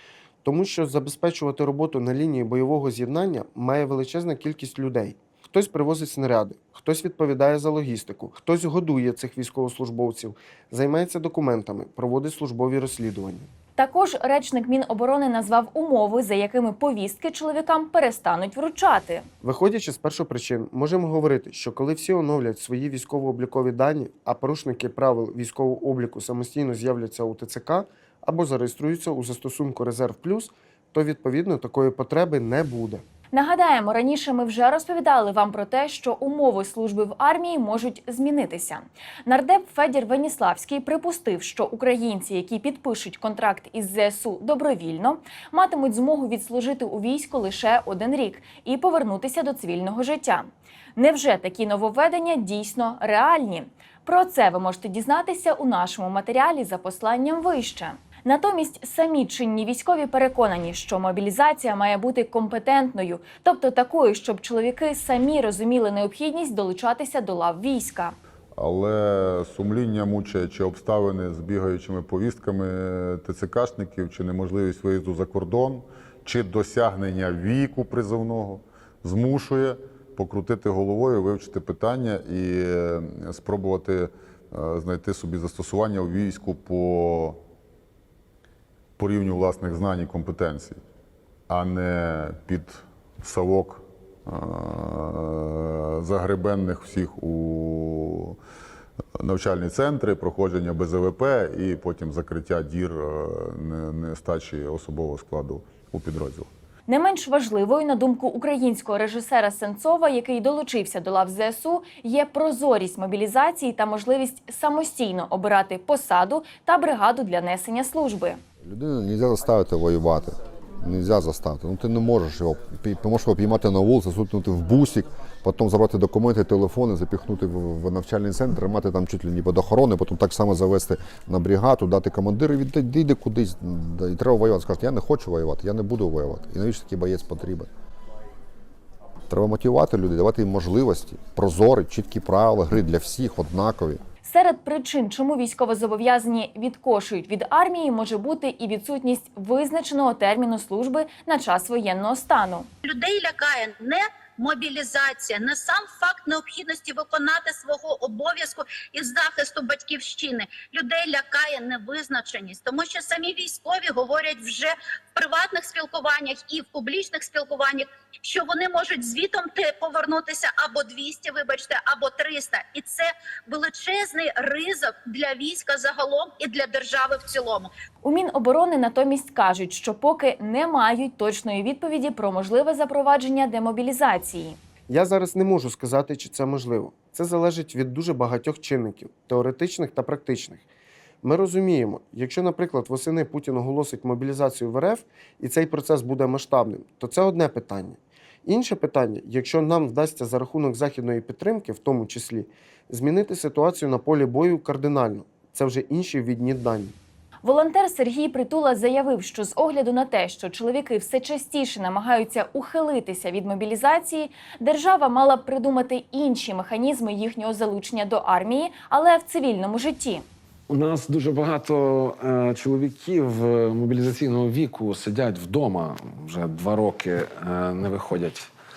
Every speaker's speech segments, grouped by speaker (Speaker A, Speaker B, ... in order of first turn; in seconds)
Speaker A: 0.4-13.5, 19.4-33.0, 184.9-190.6, 191.2-207.0
Speaker B: 13.8-19.3, 33.3-68.2, 106.9-118.4, 144.3-152.7, 178.0-184.6, 207.4-220.2
Speaker C: 68.6-87.4, 89.0-90.8, 91.5-98.4, 99.2-106.5
Speaker D: 118.6-137.7, 139.3-144.0
Speaker E: 152.8-177.7
Speaker F: 220.7-228.5